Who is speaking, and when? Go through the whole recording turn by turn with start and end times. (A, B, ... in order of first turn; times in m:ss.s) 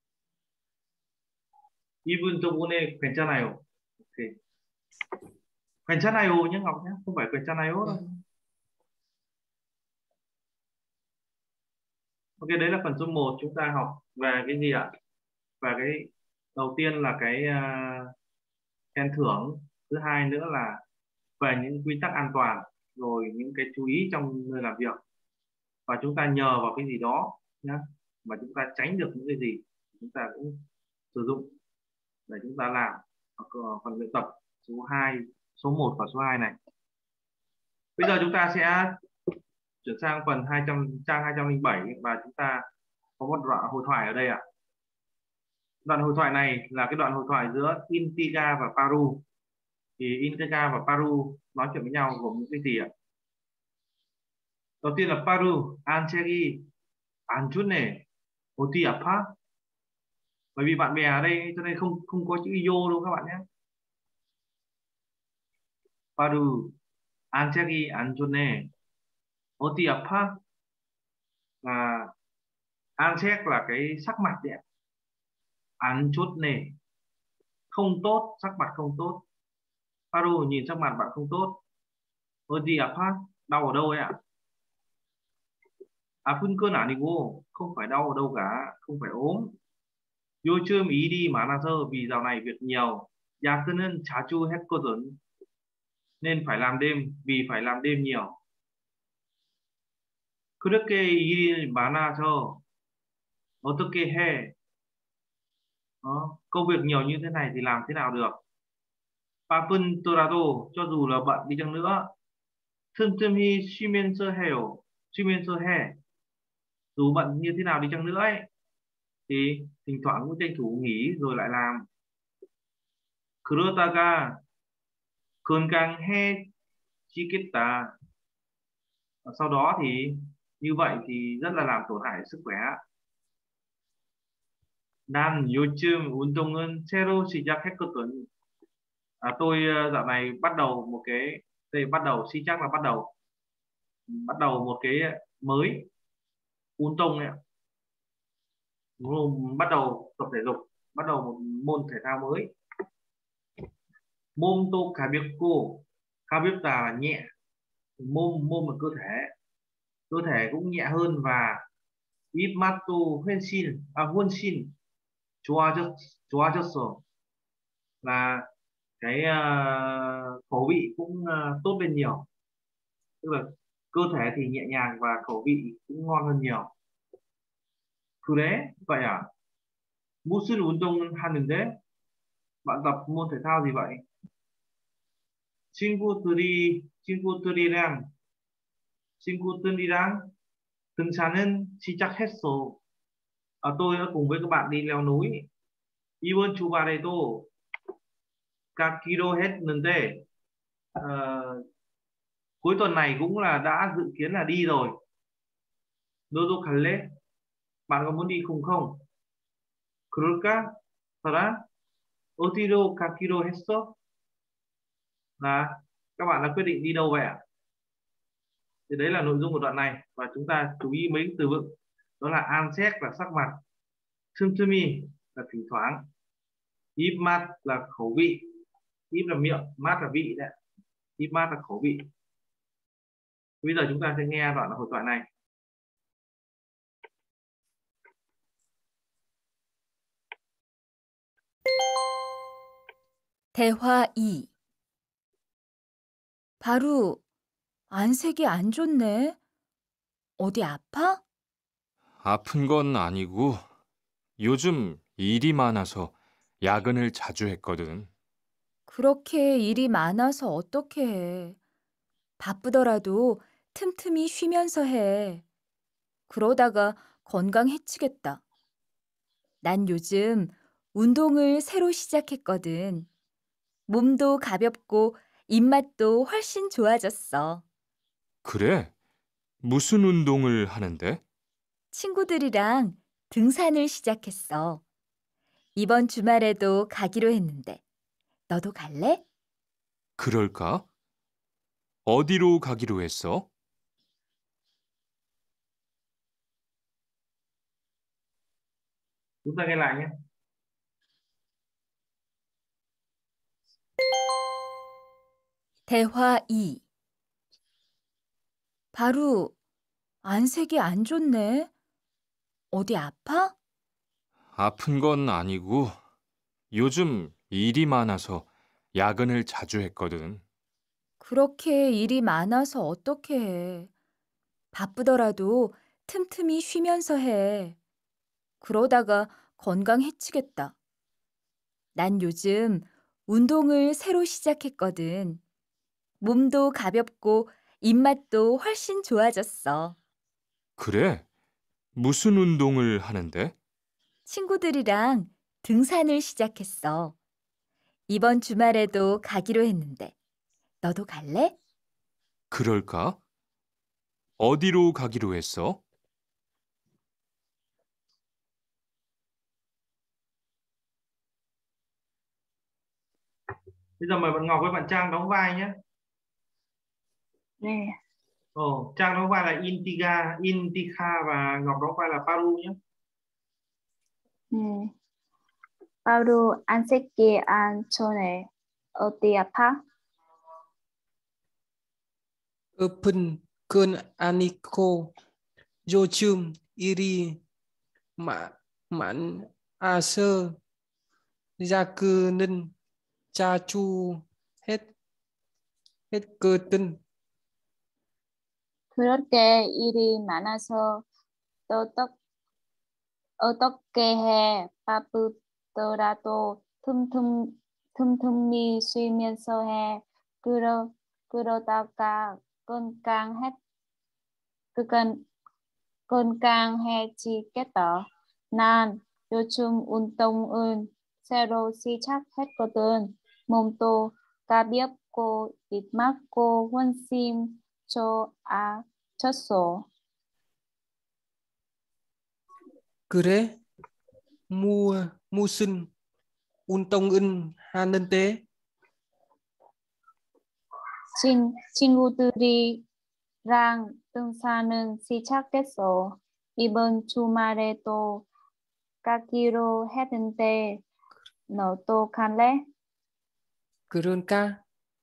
0:02.0-0:04.3 A
0:05.9-0:08.1 A
0:12.4-0:14.9 A
0:15.6-0:18.1 A
0:18.9-0:20.8 A
0:21.4-0:25.0 A
0:25.9-0:31.5 A
0:32.3-0:36.6 A
0:38.0-0:39.0 A
0:39.8-0:42.6 A
0:43.2-0:44.4 A
0:45.8-0:49.2 A
0:50.0-0:52.9 A
0:54.8-0:56.6 A
0:57.3-0:58.0 A
0:58.6-0:59.3 A
1:00.6-1:03.4 A
1:06.2-1:06.7 A
1:07.3-1:08.7 A
1:09.6-1:10.4 A
1:11.6-1:12.1 A
1:13.0-1:14.6 A
1:15.8-1:16.7 A
1:17.7-1:19.2 A
1:20.1-1:21.6 A
1:22.5-1:24.2 A
1:26.2-1:29.6 A
1:30.4-1:35.2 A
1:36.2-1:38.4 A
1:40.6-1:42.6 A
1:43.6-1:44.5 A
1:46.0-1:48.4 A
1:49.5-1:52.1 A
1:52.9-1:56.0 A
1:57.0-1:58.5 A
1:59.3-2:01.9 A
2:03.4-2:04.4 A
2:05.4-2:06.5 A
2:07.1-2:07.9 A
2:09.2-2:12.8 A
2:15.1-2:18.3 A
2:19.2-2:23.1 A
2:24.1-2:25.9 A
2:26.8-2:27.4 A
2:29.0-2:32.5 A
2:34.4-2:37.3 A
2:38.0-2:39.3 A
2:40.1-2:41.6 A
2:42.3-2:44.7 A
2:45.4-2:47.0 A
2:48.0-2:48.5 A
2:49.0-2:52.3 A
2:53.2-2:56.7 A
2:58.2-2:59.2 A
3:00.2-3:01.8 A
3:02.6-3:04.0 A
3:05.7-3:08.0 A
3:09.2-3:10.3 A
3:11.0-3:12.8 A
3:13.6-3:15.5 A
3:16.2-3:17.5 A
3:18.8-3:20.2 A
3:21.0-3:21.6 A
3:22.6-3:25.0 A
3:26.3-3:27.1 A
3:27.9-3:29.0 A
3:30.1-3:30.7 A
3:31.2-3:31.6 A
3:32.4-3:33.9 A
3:35.4-3:37.4 A
3:38.9-3:43.6 A
3:44.3-3:46.1 A
3:47.0-3:48.4 A
3:49.1-3:50.5 A
3:51.2-3:52.1 A
3:53.6-3:55.3 A
4:03.5-4:04.5 B
4:06.6-4:07.2 B
4:07.9-4:09.4 B
4:10.4-4:11.2 B
4:12.2-4:13.6 C
4:14.4-4:18.1 C
4:18.9-4:21.6 B
4:22.4-4:25.4 B
4:26.3-4:28.4 B
4:29.6-4:33.1 B
4:33.9-4:37.6 B
4:38.4-4:38.9 C
4:39.6-4:41.2 C
4:41.9-4:44.8 B
4:45.8-4:47.8 B
4:48.5-4:49.2 B
4:50.2-4:50.8 C
4:52.0-4:53.5 C
4:59.4-5:00.1 A
5:05.9-5:06.8 B
5:08.9-5:09.5 B
5:10.2-5:11.7 B
5:12.7-5:13.5 B
5:14.5-5:16.0 C
5:16.7-5:20.4 C
5:21.2-5:23.9 B
5:24.7-5:27.8 B
5:28.6-5:30.7 B
5:31.9-5:35.4 B
5:36.2-5:39.9 B
5:40.8-5:41.2 C
5:41.9-5:43.5 C
5:44.3-5:47.1 B
5:48.1-5:50.1 B
5:50.8-5:51.6 B
5:52.5-5:53.2 C
5:54.4-5:55.8 C
6:04.0-6:05.7 A
6:07.6-6:08.0 D
6:08.6-6:12.8 A
6:14.5-6:14.9 D
6:16.0-6:19.8 D
6:22.8-6:25.1 E
6:25.8-6:27.4 E
6:28.2-6:30.6 E
6:31.6-6:32.7 E
6:33.3-6:34.9 E
6:36.1-6:37.0 E
6:38.9-6:41.0 D
6:41.7-6:42.1 D
6:43.4-6:53.6 D
6:54.8-6:55.2 D
6:56.1-7:09.9 D
7:13.1-7:13.6 E
7:14.5-7:15.9 E
7:16.7-7:18.4 E
7:21.1-7:22.8 D
7:23.4-7:28.2 D
7:29.0-7:30.8 D
7:31.5-7:32.6 D
7:33.9-7:34.6 E